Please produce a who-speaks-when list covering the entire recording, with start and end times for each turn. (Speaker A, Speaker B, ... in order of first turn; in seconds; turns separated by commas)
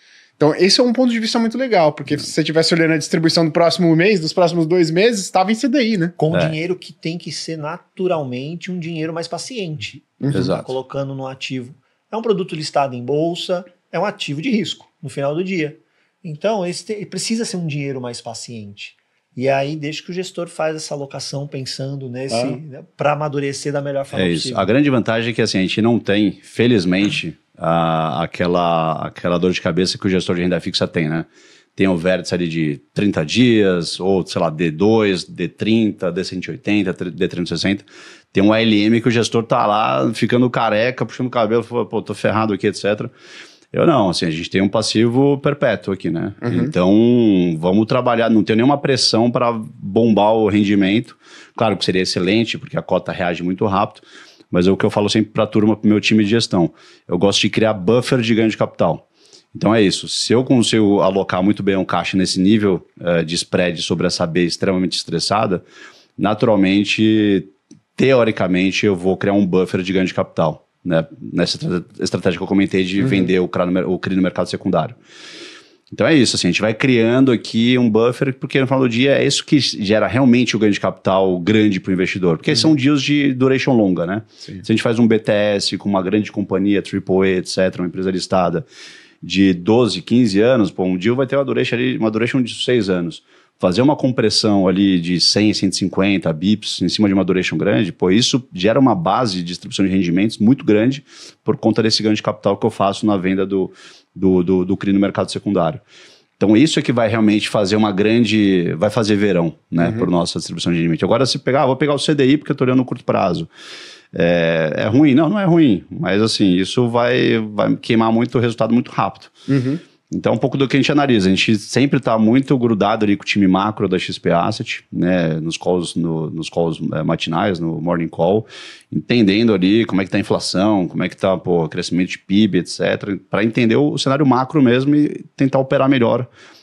Speaker A: 0.4-6.2, Speaker B: 6.2-24.7, Speaker C: 6.3-6.6, Speaker A: 10.2-10.6, Speaker C: 10.3-10.7, Speaker A: 22.3-22.6, Speaker C: 24.1-43.1, Speaker C: 43.7-65.6, Speaker A: 46.4-46.7, Speaker C: 66.2-75.0, Speaker A: 73.0-73.3, Speaker C: 75.9-88.7, Speaker C: 89.2-105.8, Speaker C: 106.4-113.5, Speaker A: 109.8-110.1, Speaker C: 114.1-119.3, Speaker A: 119.5-119.8, Speaker C: 120.1-136.3